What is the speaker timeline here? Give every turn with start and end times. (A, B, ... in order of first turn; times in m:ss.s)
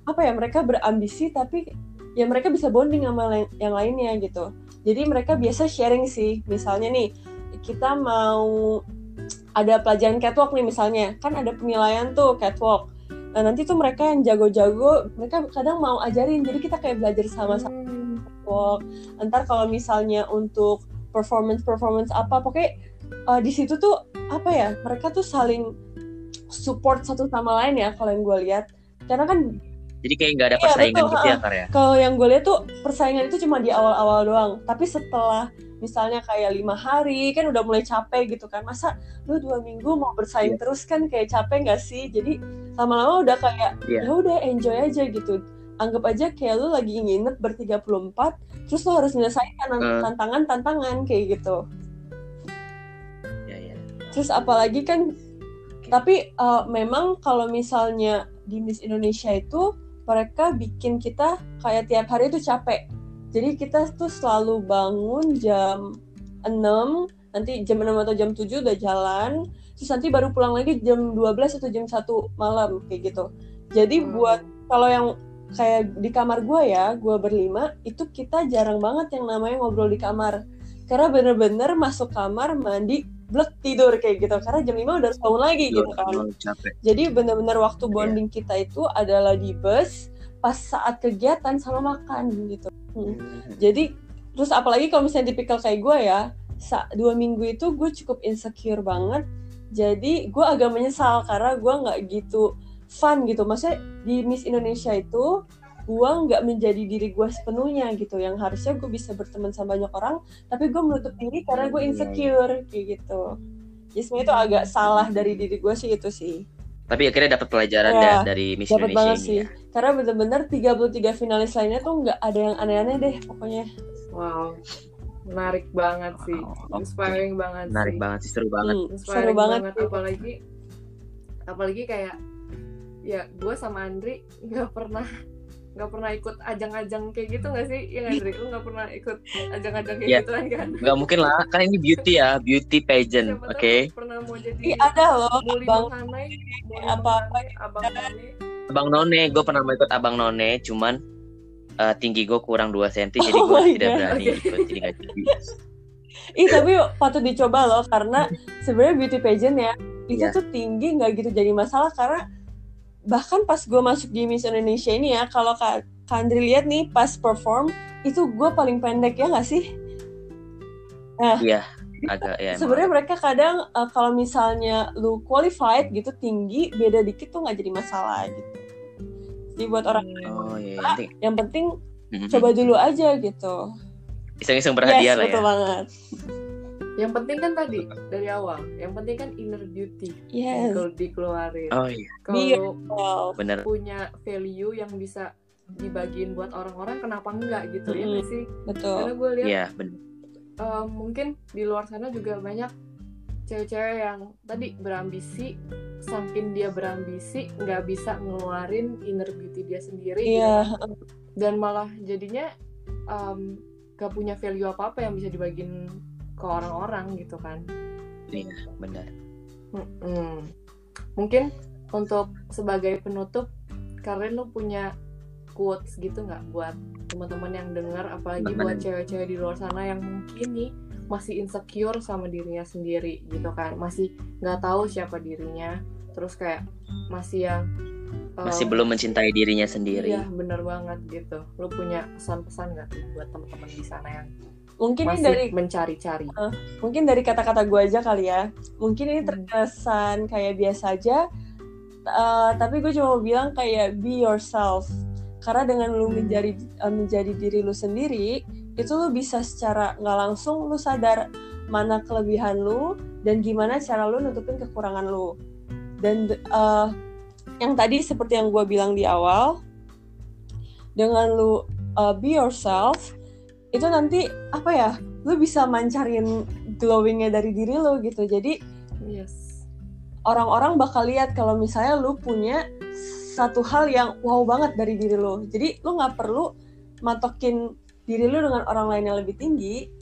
0:00.1-0:01.6 A
0:02.2-0:07.1 A
0:07.7-0:08.5 A
0:09.6-0:12.8 A
0:13.4-0:17.7 A
0:17.5-0:18.2 B
0:18.3-0:22.7 A
0:23.3-0:25.7 A
0:26.5-0:29.4 A
0:30.0-0:31.7 C
0:30.6-0:51.6 A
0:49.8-0:50.1 C
0:53.5-0:53.9 C
0:54.1-0:55.0 A
0:55.9-1:05.8 A
1:06.5-1:20.4 A
1:14.0-1:14.5 B
1:20.9-1:26.2 A
1:25.7-1:26.8 C
1:26.8-1:29.9 A
1:27.9-1:28.2 C
1:30.4-1:33.9 A
1:33.1-1:33.6 C
1:34.4-1:39.2 A
1:39.8-1:45.3 A
1:45.9-1:53.2 A
1:51.5-1:52.3 C
1:54.0-1:56.4 A
1:54.2-1:54.7 B
1:56.9-1:59.5 C
1:57.9-2:03.7 A
2:04.1-2:04.6 B
2:05.3-2:08.0 B
2:06.2-2:08.8 C
2:08.6-2:10.2 A
2:08.9-2:10.4 B
2:11.5-2:12.2 B
2:13.1-2:15.1 B
2:15.8-2:21.0 B
2:20.8-2:23.9 C
2:23.2-2:28.3 B
2:24.7-2:28.0 A
2:28.7-2:31.0 C
2:31.8-2:35.3 C
2:33.2-2:34.2 A
2:34.1-2:34.7 B
2:36.4-2:42.2 A
2:43.1-2:49.6 A
2:51.4-2:52.9 C
2:52.0-2:58.6 A
2:59.6-3:00.2 A
2:59.9-3:00.6 B
3:00.3-3:01.1 C
3:00.8-3:01.7 A
3:02.1-3:02.5 C
3:02.3-3:03.6 A
3:04.4-3:05.5 C
3:04.8-3:05.9 A
3:07.0-3:12.8 B
3:10.3-3:10.8 A
3:11.7-3:12.1 C
3:12.3-3:13.4 A
3:13.4-3:13.7 C
3:13.6-3:15.3 B
3:15.8-3:18.5 B
3:17.9-3:19.1 A
3:19.0-3:19.6 B
3:19.4-3:20.0 C
3:20.6-3:22.7 B
3:23.5-3:25.5 B
3:26.1-3:30.7 B
3:30.3-3:31.0 A
3:31.4-3:32.5 B
3:33.1-3:35.7 B
3:36.4-3:37.6 B
3:38.3-3:39.1 C
3:39.8-3:40.5 B
3:41.2-3:43.5 B
3:44.0-3:44.9 B
3:45.6-3:57.6 B
3:48.4-3:48.8 C
3:58.4-3:58.8 B
3:58.5-4:00.3 C
3:59.9-4:04.3 B
4:04.8-4:05.5 A
4:05.1-4:06.4 B
4:06.4-4:11.2 A
4:09.2-4:09.5 B
4:12.1-4:14.9 A
4:15.4-4:21.2 A
4:16.1-4:16.4 B
4:21.7-4:25.3 A
4:26.0-4:26.9 A
4:27.6-4:29.6 A
4:31.0-4:33.1 A
4:33.8-4:38.6 A
4:39.1-4:39.6 B
4:40.3-4:42.6 A
4:43.4-4:46.5 A
4:47.1-4:49.8 A